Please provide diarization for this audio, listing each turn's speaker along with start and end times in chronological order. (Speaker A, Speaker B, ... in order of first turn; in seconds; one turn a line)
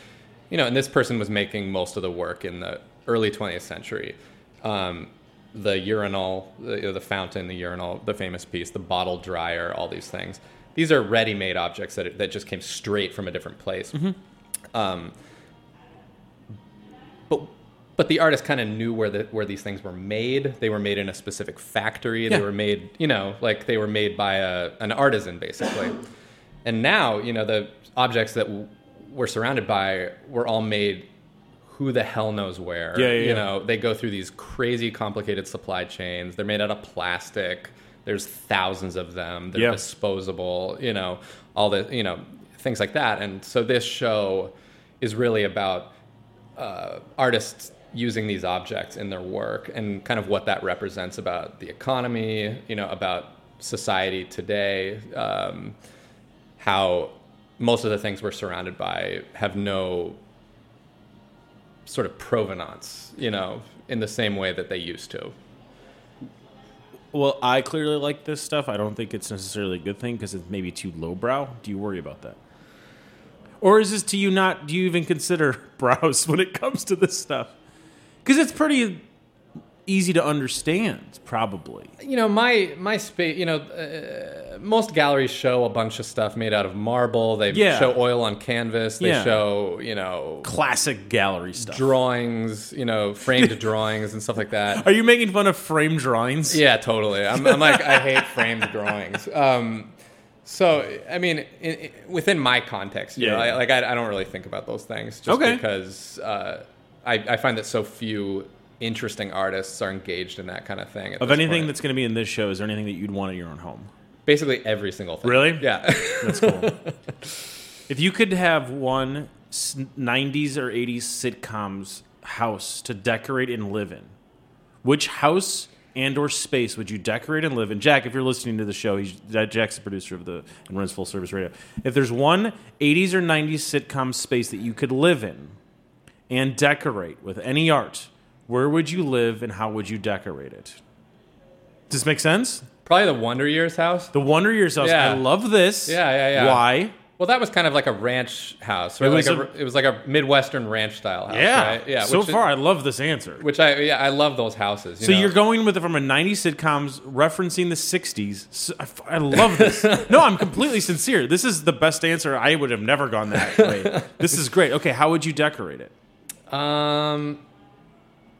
Speaker A: 0.5-14.1
Speaker A: 14.7-15.1
Speaker A: 17.3-26.0
Speaker A: 26.6-31.1
Speaker A: 31.6-45.9
Speaker B: 32.9-33.5
Speaker A: 46.6-55.8
Speaker A: 56.6-60.2
Speaker A: 61.9-65.3
Speaker B: 67.1-72.4
Speaker B: 73.6-77.5
Speaker B: 78.2-79.0
Speaker B: 79.8-81.9
Speaker A: 82.0-90.5
Speaker B: 87.5-88.0
Speaker B: 89.0-89.4
Speaker B: 90.4-91.9
Speaker A: 91.6-94.8
Speaker B: 94.7-96.6
Speaker A: 96.5-99.9
Speaker B: 97.4-98.5
Speaker A: 100.4-111.7
Speaker B: 103.2-103.6
Speaker B: 105.3-105.6
Speaker B: 111.2-113.9
Speaker A: 114.2-117.0
Speaker B: 115.2-116.8
Speaker B: 117.9-124.1
Speaker B: 124.8-135.6
Speaker B: 136.3-140.8
Speaker B: 141.9-142.7
Speaker A: 142.8-144.1
Speaker B: 144.1-146.9
Speaker A: 144.8-145.3
Speaker A: 145.8-152.4
Speaker B: 149.0-149.5
Speaker B: 151.3-153.4
Speaker A: 153.4-155.3
Speaker B: 155.0-165.9
Speaker A: 159.5-160.3
Speaker A: 163.5-164.0
Speaker A: 166.5-167.4